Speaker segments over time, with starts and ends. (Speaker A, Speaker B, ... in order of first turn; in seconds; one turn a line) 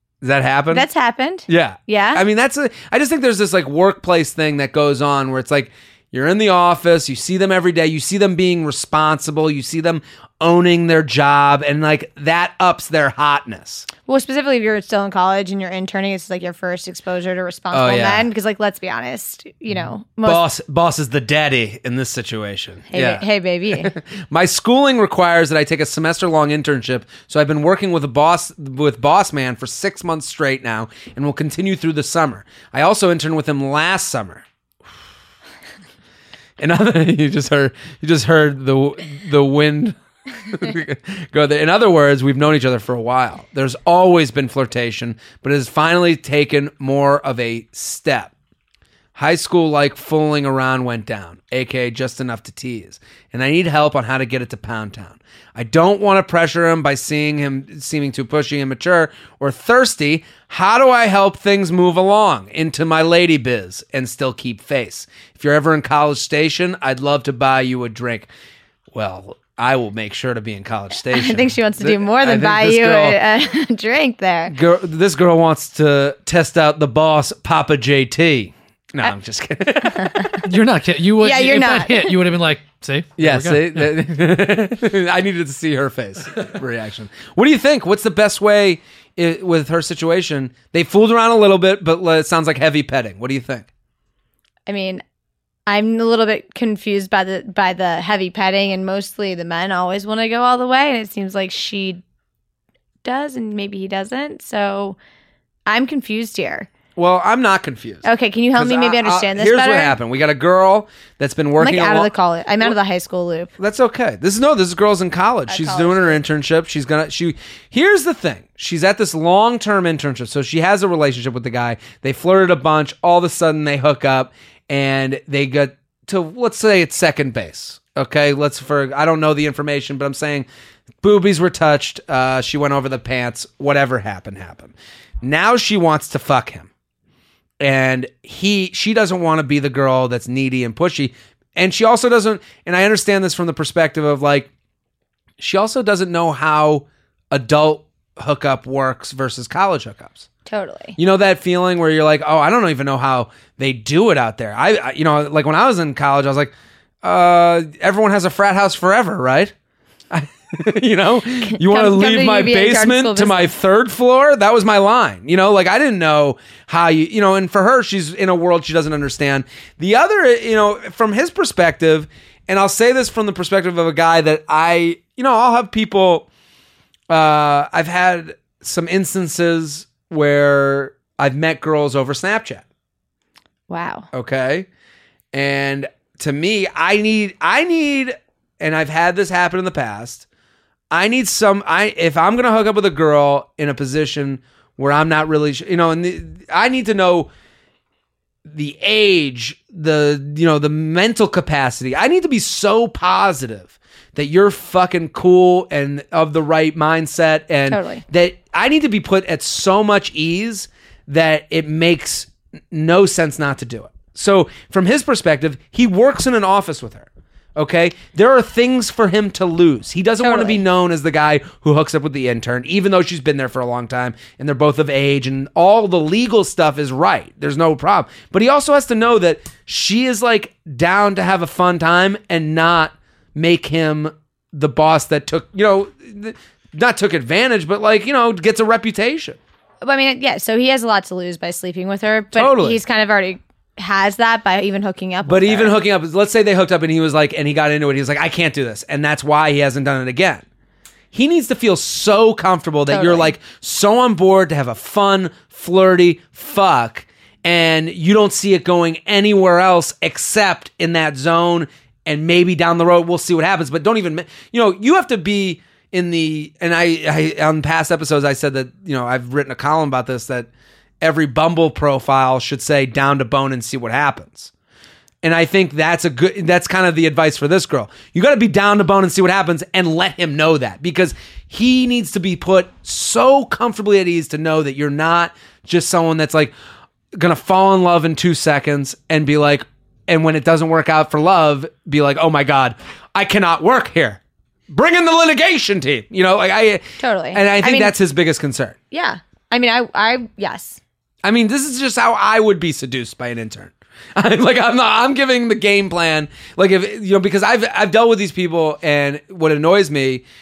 Speaker A: 0.2-0.8
Speaker B: 0.7-2.2
Speaker A: 1.5-13.9
Speaker B: 14.1-20.4
Speaker A: 17.7-18.3
Speaker A: 20.2-34.4
Speaker B: 22.9-23.9
Speaker A: 36.6-48.3
Speaker A: 49.1-68.3
Speaker A: 68.9-73.2
Speaker B: 71.1-74.5
Speaker A: 74.5-80.3
Speaker B: 79.8-80.4
Speaker C: 80.4-83.9
Speaker B: 81.2-82.1
Speaker A: 83.2-93.7
Speaker B: 94.7-95.0
Speaker B: 95.7-102.0
Speaker B: 103.0-105.0
Speaker B: 105.7-106.7
Speaker A: 107.0-112.1
Speaker B: 108.0-110.0
Speaker B: 111.6-113.5
Speaker A: 113.6-130.5
Speaker B: 115.5-116.2
Speaker A: 131.0-136.7
Speaker A: 137.6-144.5
Speaker A: 145.4-150.3
Speaker B: 150.5-151.0
Speaker A: 151.0-159.5
Speaker A: 160.1-176.3
Speaker B: 161.4-163.5
Speaker A: 177.1-182.6
Speaker B: 183.7-184.1
Speaker A: 184.1-184.7
Speaker A: 185.3-190.2
Speaker A: 190.9-197.3
Speaker A: 198.4-239.4
Speaker B: 207.7-208.0
Speaker B: 220.2-220.6
Speaker B: 239.8-245.8
Speaker A: 242.3-242.8
Speaker A: 245.2-250.4
Speaker A: 251.1-270.5
Speaker B: 252.9-253.3
Speaker A: 271.0-274.5
Speaker A: 275.2-286.5
Speaker A: 287.1-298.8
Speaker B: 297.0-297.9
Speaker B: 298.9-300.8
Speaker A: 301.2-310.2